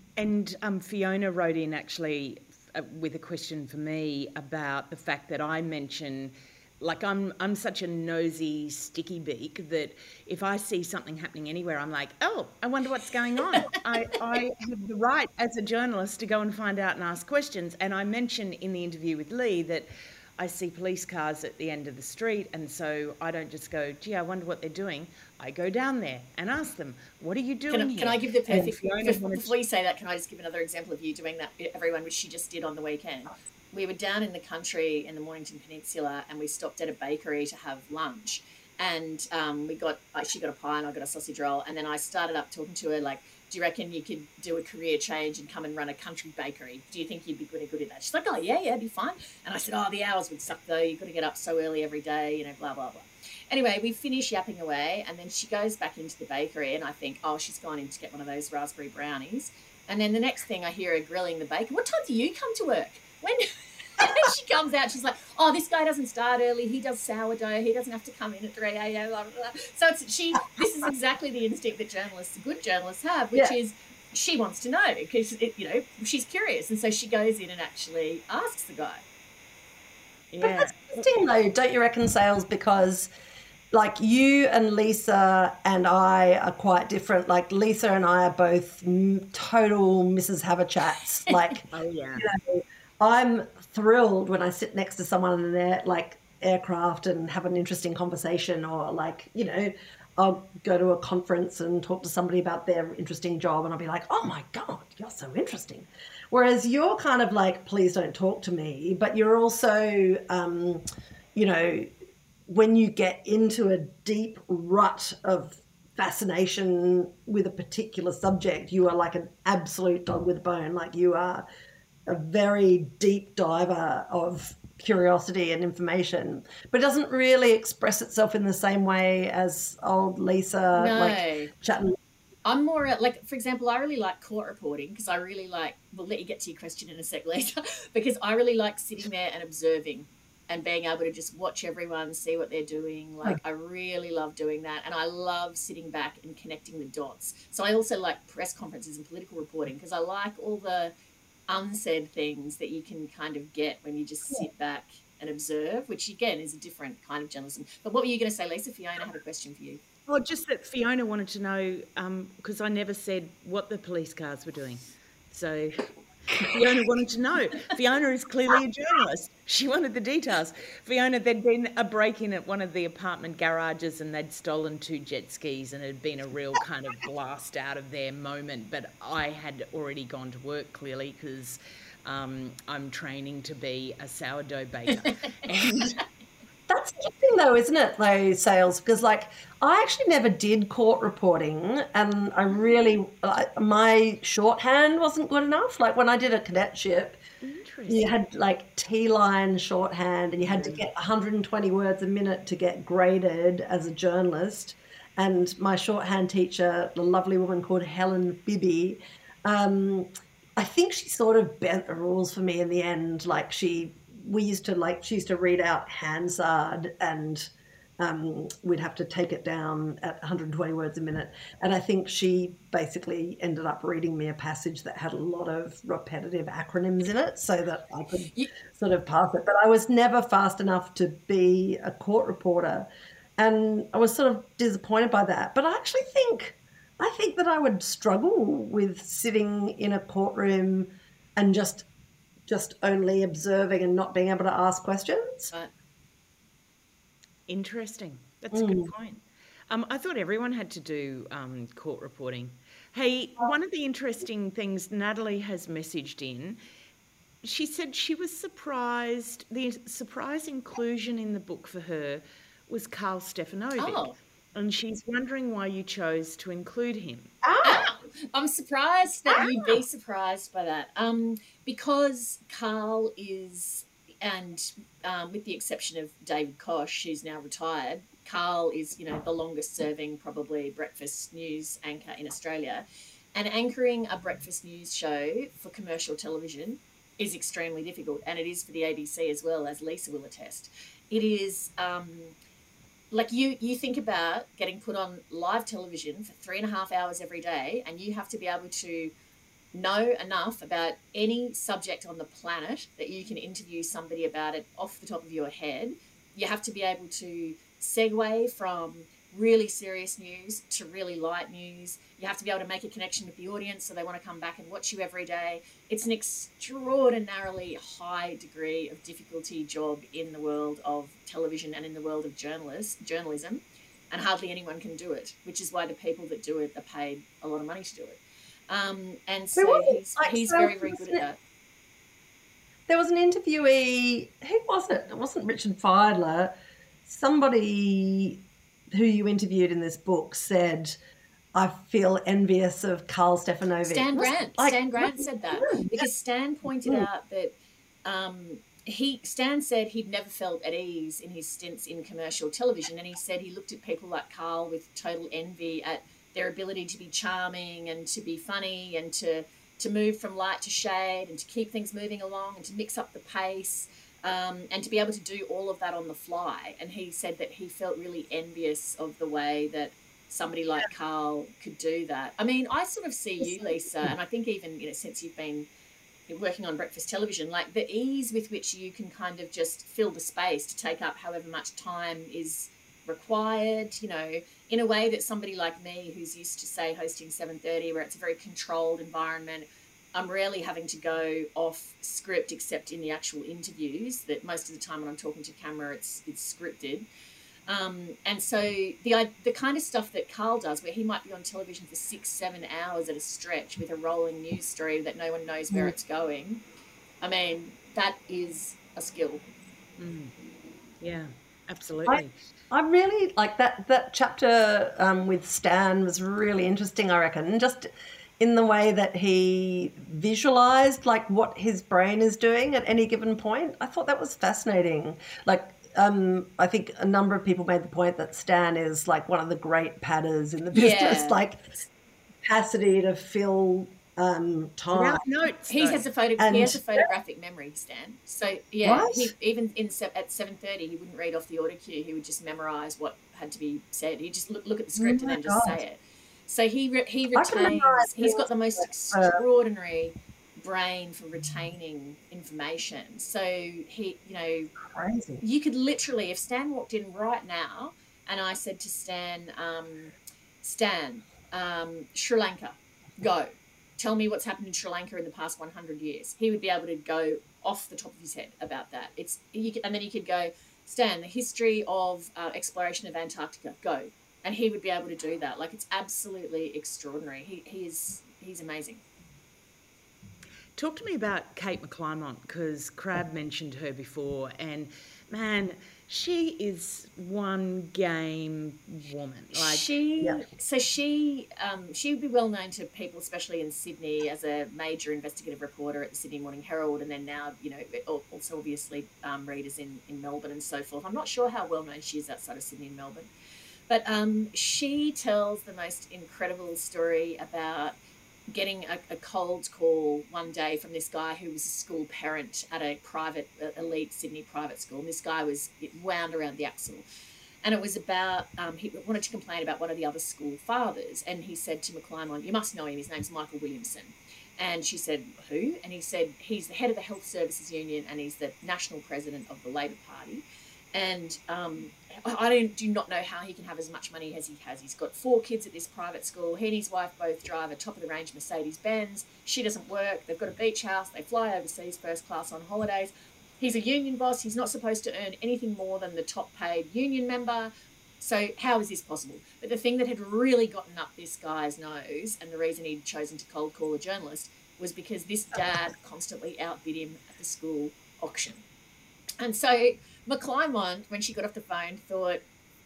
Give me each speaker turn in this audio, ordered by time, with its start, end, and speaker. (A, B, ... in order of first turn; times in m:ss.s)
0:00.2-0:29.5 A
0:27.7-1:19.0 B
1:20.3-1:20.8 A
1:20.4-1:23.1 C
1:23.7-1:50.8 C
1:31.7-1:32.3 A
1:51.3-1:51.9 C
1:52.5-2:01.4 C
2:02.1-2:12.0 C
2:10.7-2:11.5 B
2:12.4-2:30.9 B
2:31.5-2:39.8 B
2:40.1-2:45.8 A
2:46.4-3:06.0 A
3:06.7-3:17.2 C
3:17.4-3:18.1 A
3:17.9-3:52.8 C
3:20.4-3:20.8 A
3:53.4-4:01.9 C
4:02.5-4:05.5 C
4:07.5-4:16.6 A
4:08.5-4:08.9 C
4:17.4-4:27.3 A
4:23.8-4:24.2 B
4:27.4-4:27.9 C
4:27.6-4:52.4 B
4:29.3-4:29.7 C
4:53.1-4:59.1 B
4:59.7-5:31.4 B
5:29.6-5:31.2 C
5:32.9-5:36.5 C
5:37.0-5:41.0 C
5:41.5-5:46.1 C
5:43.8-6:15.7 B
6:13.4-6:14.1 C
6:16.3-6:37.0 B
6:37.7-6:46.6 B
6:47.2-6:49.4 B
6:50.0-6:50.3 A
6:51.0-6:52.3 A
6:52.1-6:57.9 C
6:58.4-7:11.7 C
7:10.7-7:11.4 B
7:12.4-7:15.2 C
7:14.9-7:16.0 A
7:15.7-7:34.7 B
7:16.4-7:17.0 C
7:18.8-7:19.3 C
7:25.0-7:25.8 C
7:27.3-7:29.4 C
7:34.8-7:35.4 C
7:35.4-7:59.0 B
8:00.8-8:09.9 A
8:09.5-8:23.3 B
8:23.9-8:28.0 B
8:28.5-8:37.0 B
8:37.6-9:18.6 B
9:19.4-9:22.4 B